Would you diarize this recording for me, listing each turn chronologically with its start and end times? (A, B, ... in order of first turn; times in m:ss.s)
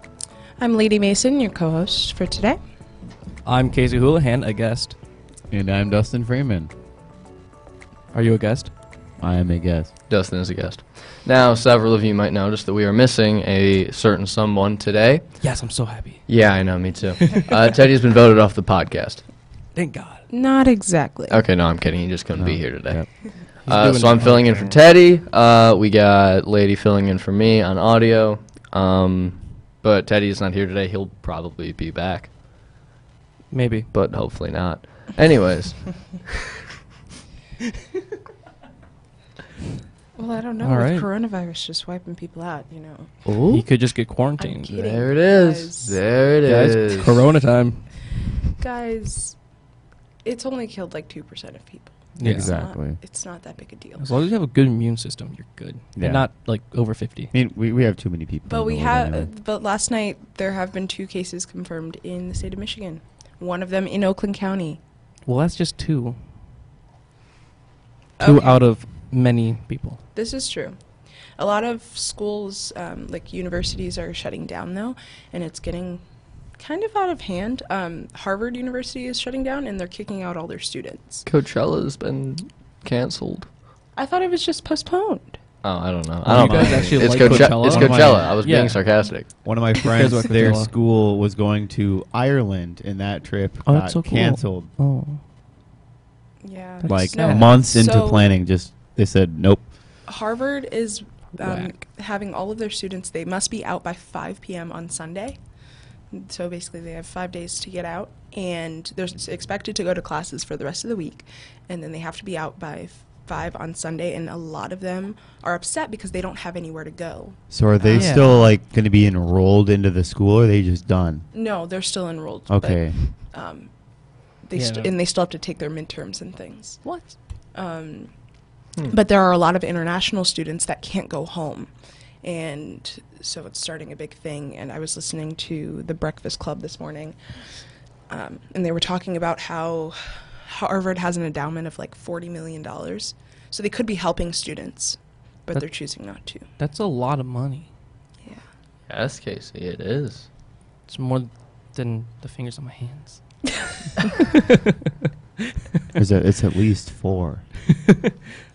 0:00.6-0:02.6 A
0:03.5-0:05.0 B
0:05.5-0:06.7 C
0:08.1-0:08.7 B
0:09.2-0:09.9 C
0:10.1-0:15.3 D
0:15.4-0:16.2 B
0:16.3-0:19.2 D
0:19.8-0:20.2 B
0:20.3-0:21.4 A
0:21.3-0:23.0 D
0:22.4-0:23.1 C
0:23.7-0:32.3 D
0:23.7-0:24.7 B
0:33.5-0:33.9 B
0:33.9-0:35.9 D
0:40.2-0:43.1 A
0:40.6-0:41.1 B
0:43.3-0:43.6 D
0:43.5-0:44.7 B
0:44.4-0:46.0 A
0:44.7-0:47.2 D
0:46.4-0:47.8 B
0:48.6-0:49.4 A
0:50.2-0:54.0 A
0:52.2-0:52.6 B
0:52.2-0:53.0 C
0:54.0-0:57.3 B
0:56.0-0:56.2 C
0:57.3-0:59.3 C
0:58.5-1:04.8 A
1:05.3-1:06.2 B
1:08.2-1:08.7 A
1:08.2-1:10.0 B
1:10.2-1:10.8 A
1:11.4-1:16.0 A
1:16.6-1:21.2 A
1:21.3-1:23.5 D
1:24.0-1:25.4 A
1:25.6-1:29.3 D
1:26.3-1:28.8 B
1:26.3-1:28.4 C
1:29.4-1:34.7 C
1:29.8-1:30.7 B
1:33.7-1:35.2 B
1:36.4-1:38.2 A
1:36.8-1:37.5 B
1:36.9-1:39.6 C
1:40.1-1:45.4 A
1:41.4-1:41.7 B
1:46.1-1:58.4 A
1:57.5-2:01.2 C
1:57.9-1:58.3 B
2:01.3-2:03.7 A
2:02.5-2:03.0 C
2:04.4-2:06.9 A
2:04.6-2:04.9 B
2:06.8-2:07.1 B
2:07.6-2:08.1 A
2:08.9-2:11.7 A
2:12.2-2:17.2 A
2:18.1-2:26.4 A
2:26.6-2:27.7 B
2:28.9-2:30.3 D
2:30.9-2:33.2 B
2:34.2-2:34.7 B
2:36.0-2:37.4 C